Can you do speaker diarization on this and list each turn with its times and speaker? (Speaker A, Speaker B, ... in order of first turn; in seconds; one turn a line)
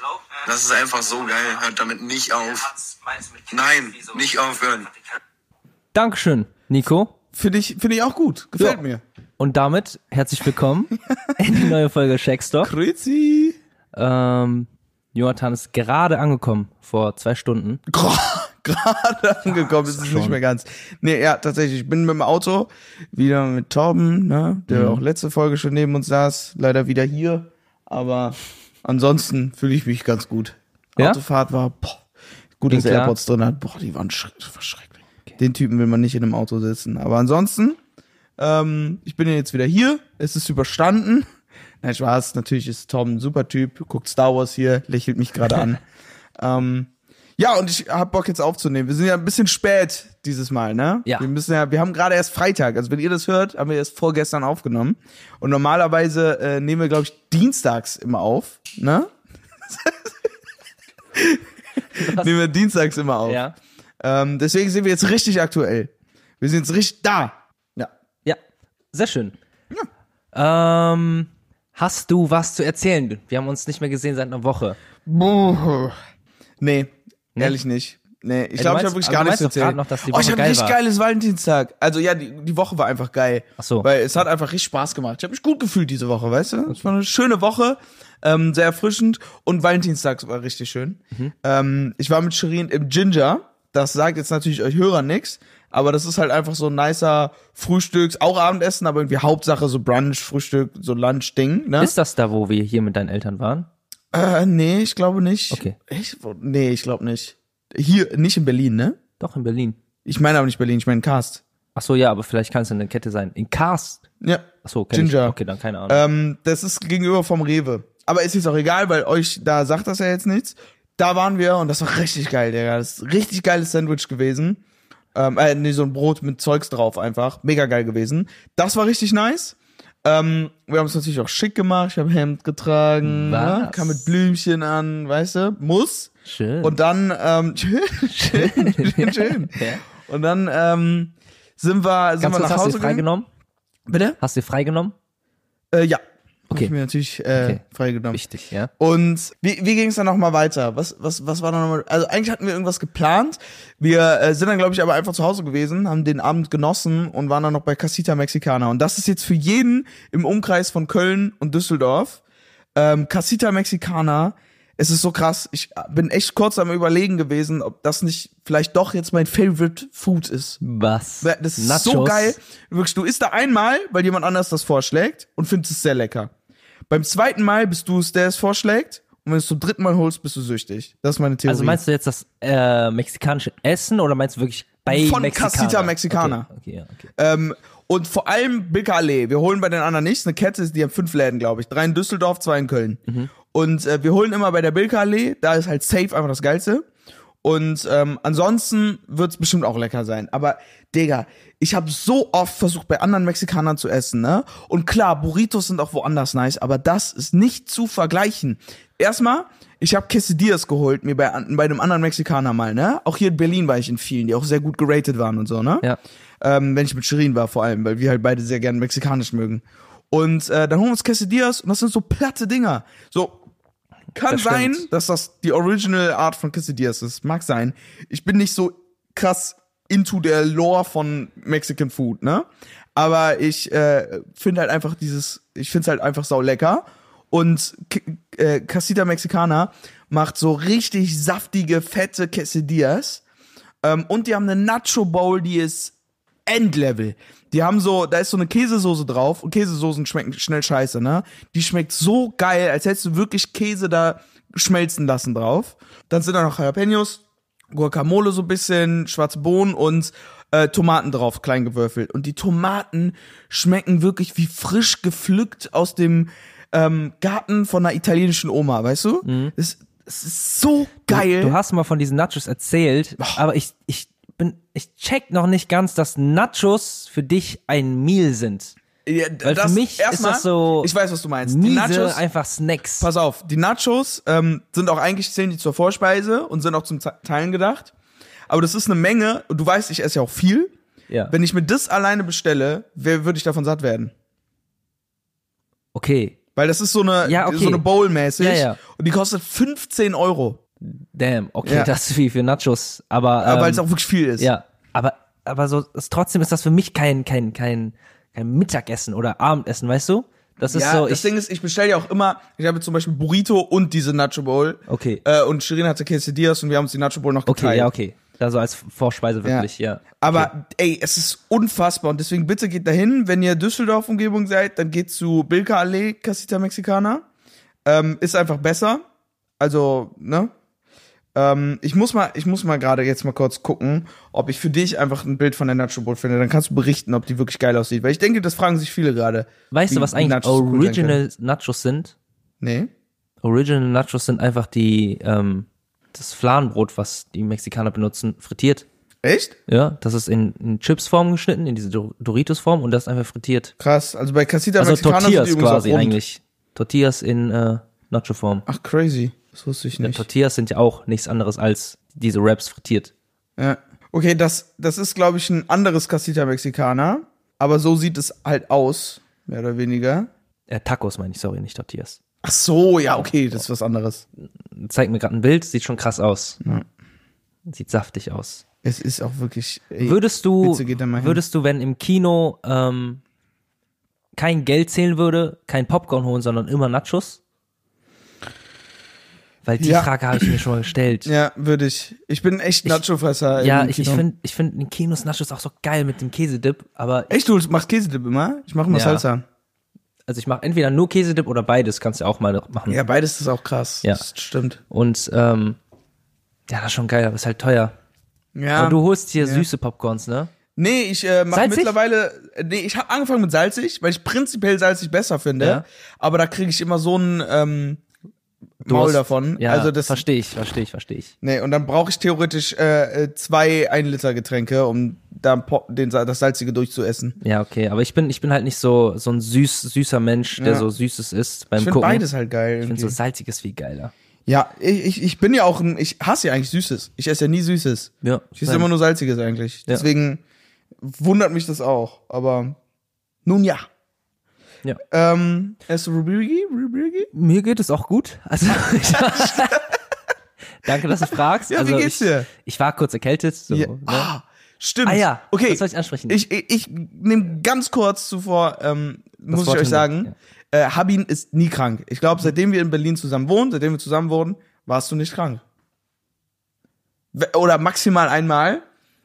Speaker A: 0.4-4.9
Speaker B: 5.9-7.1
Speaker C: 7.3-9.0
Speaker B: 9.4-12.7
Speaker C: 12.6-13.6
Speaker B: 13.9-17.8
Speaker C: 17.9-32.0
Speaker B: 19.5-20.4
Speaker B: 24.7-25.0
Speaker C: 32.6-37.8
Speaker B: 32.7-33.1
Speaker C: 38.4-41.3
Speaker C: 41.8-45.8
Speaker C: 46.4-59.1
Speaker C: 59.6-60.1
Speaker C: 61.1-61.4
Speaker B: 62.0-62.3
Speaker C: 62.0-63.4
Speaker B: 63.2-63.5
Speaker C: 64.0-67.9
Speaker B: 68.9-69.3
Speaker B: 70.3-74.8
Speaker C: 75.1-76.0
Speaker C: 76.6-101.9
Speaker B: 78.6-80.8
Speaker B: 83.6-83.9
Speaker B: 101.8-103.7
Speaker C: 104.1-109.0
Speaker B: 105.5-105.8
Speaker B: 109.2-109.8
Speaker C: 110.0-111.4
Speaker B: 111.8-114.0
Speaker C: 114.2-115.4
Speaker B: 114.6-116.0
Speaker C: 115.9-124.6
Speaker C: 125.2-136.1
Speaker B: 133.0-134.1
Speaker B: 136.2-136.8
Speaker C: 136.6-143.1
Speaker B: 138.1-139.8
Speaker B: 142.2-143.3
Speaker C: 143.9-144.2
Speaker B: 144.2-144.9
Speaker C: 145.7-148.2
Speaker B: 147.4-148.7
Speaker C: 148.8-162.2
Speaker C: 162.8-170.6
Speaker B: 170.6-172.4
Speaker C: 171.2-176.3
Speaker C: 176.9-181.8
Speaker B: 181.5-187.1
Speaker C: 184.9-186.5
Speaker C: 187.2-196.9
Speaker C: 197.4-215.9
Speaker C: 216.4-223.4
Speaker C: 224.1-243.2
Speaker B: 224.2-224.9
Speaker C: 243.8-245.9
Speaker C: 246.5-257.2
Speaker C: 257.7-271.6
Speaker B: 269.2-269.5
Speaker B: 271.1-278.8
Speaker C: 279.1-282.2
Speaker B: 279.4-280.9
Speaker B: 281.4-283.1
Speaker C: 283.0-287.9
Speaker C: 288.5-290.7
Speaker C: 291.3-294.1
Speaker B: 295.9-296.4
Speaker C: 296.6-300.6
Speaker B: 297.2-297.9
Speaker B: 298.4-298.8
Speaker B: 300.8-303.8
Speaker C: 301.6-301.9
Speaker C: 303.4-304.5
Speaker B: 304.4-311.3
Speaker C: 310.7-317.9
Speaker B: 314.9-315.2
Speaker B: 317.5-320.5
Speaker C: 320.2-327.2
Speaker C: 327.9-329.0
Speaker C: 329.6-330.5
Speaker C: 331.4-341.2
Speaker B: 339.7-342.1
Speaker C: 342.6-342.9
Speaker B: 343.4-348.9
Speaker C: 349.2-349.6
Speaker B: 349.7-353.7
Speaker C: 353.8-356.2
Speaker B: 354.8-358.7
Speaker C: 358.7-360.2
Speaker B: 360.0-363.1
Speaker C: 363.6-370.3
Speaker B: 370.7-372.2
Speaker C: 372.4-374.2
Speaker B: 374.8-376.6
Speaker B: 377.7-378.6
Speaker C: 378.8-381.4
Speaker B: 380.0-383.2
Speaker B: 384.4-387.4
Speaker B: 389.6-391.3
Speaker C: 389.8-390.6
Speaker C: 391.3-394.2
Speaker B: 393.6-397.3
Speaker C: 397.3-399.4
Speaker B: 398.9-399.2
Speaker B: 400.3-403.0
Speaker C: 402.9-404.8
Speaker B: 404.9-405.8
Speaker B: 406.7-407.9
Speaker C: 408.6-409.7
Speaker B: 408.7-410.5
Speaker C: 410.8-418.0
Speaker B: 411.5-411.9
Speaker C: 418.8-420.2
Speaker B: 418.9-421.3
Speaker C: 421.4-427.4
Speaker B: 427.4-432.3
Speaker C: 430.6-430.9
Speaker C: 431.8-433.2
Speaker B: 432.8-434.1
Speaker C: 434.5-440.4
Speaker B: 438.2-438.9
Speaker C: 441.0-442.8
Speaker C: 443.4-443.8
Speaker C: 445.1-447.3
Speaker B: 447.3-449.9
Speaker C: 449.2-449.9
Speaker B: 450.8-454.3
Speaker C: 451.7-452.5
Speaker C: 453.7-465.6
Speaker B: 455.1-456.4
Speaker B: 459.5-460.3
Speaker C: 467.3-468.8